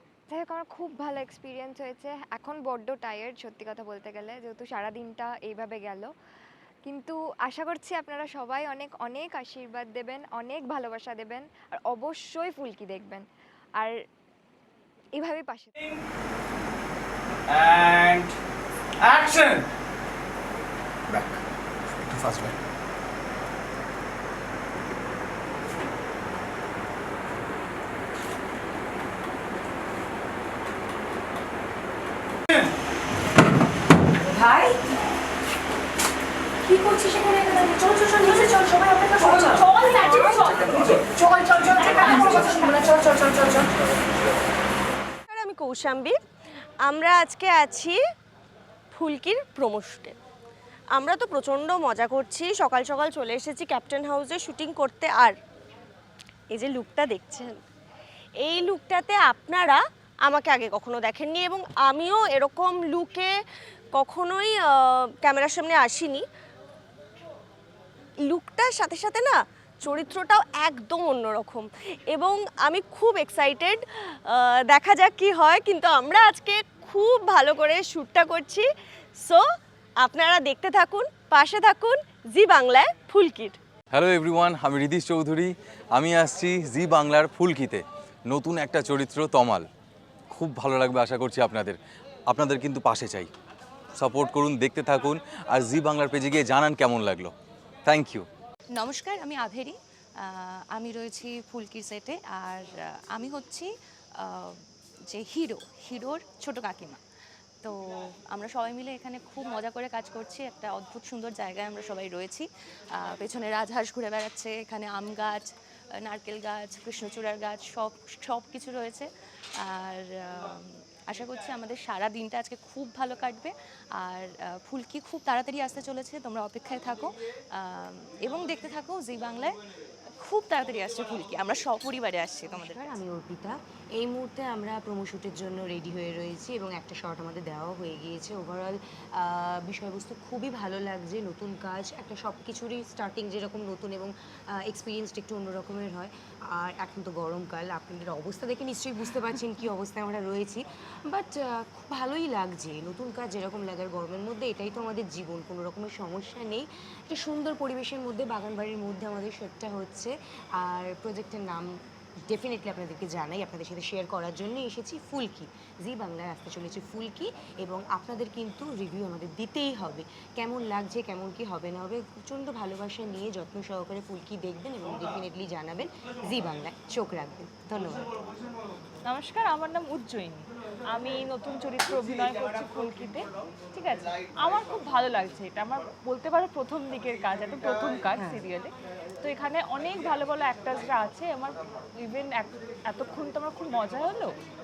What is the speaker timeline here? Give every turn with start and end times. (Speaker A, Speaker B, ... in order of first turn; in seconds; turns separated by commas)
Speaker A: 0.3-6.1, Speaker A: 6.8-13.2, Speaker A: 15.2-15.7, Speaker B: 36.7-39.6, Speaker C: 39.7-40.4, Speaker B: 40.3-43.5, Speaker D: 45.3-46.1, Speaker D: 46.9-47.9, Speaker D: 48.9-50.1, Speaker D: 51.0-55.3, Speaker D: 56.5-57.5, Speaker D: 58.5-59.8, Speaker D: 60.3-63.2, Speaker D: 64.0-64.5, Speaker D: 65.3-66.2, Speaker D: 68.3-69.3, Speaker D: 69.9-71.6, Speaker D: 72.2-73.7, Speaker D: 74.7-78.6, Speaker D: 80.1-83.5, Speaker E: 83.9-89.7, Speaker E: 90.3-93.3, Speaker E: 94.0-97.3, Speaker E: 97.8-98.3, Speaker F: 98.7-103.7, Speaker F: 104.2-104.5, Speaker F: 105.1-107.0, Speaker F: 108.3-112.5, Speaker F: 113.0-115.5, Speaker F: 116.0-119.1, Speaker F: 119.6-129.6, Speaker F: 130.2-133.0, Speaker G: 132.5-161.7, Speaker G: 162.3-178.1, Speaker C: 179.0-194.3, Speaker G: 188.2-188.4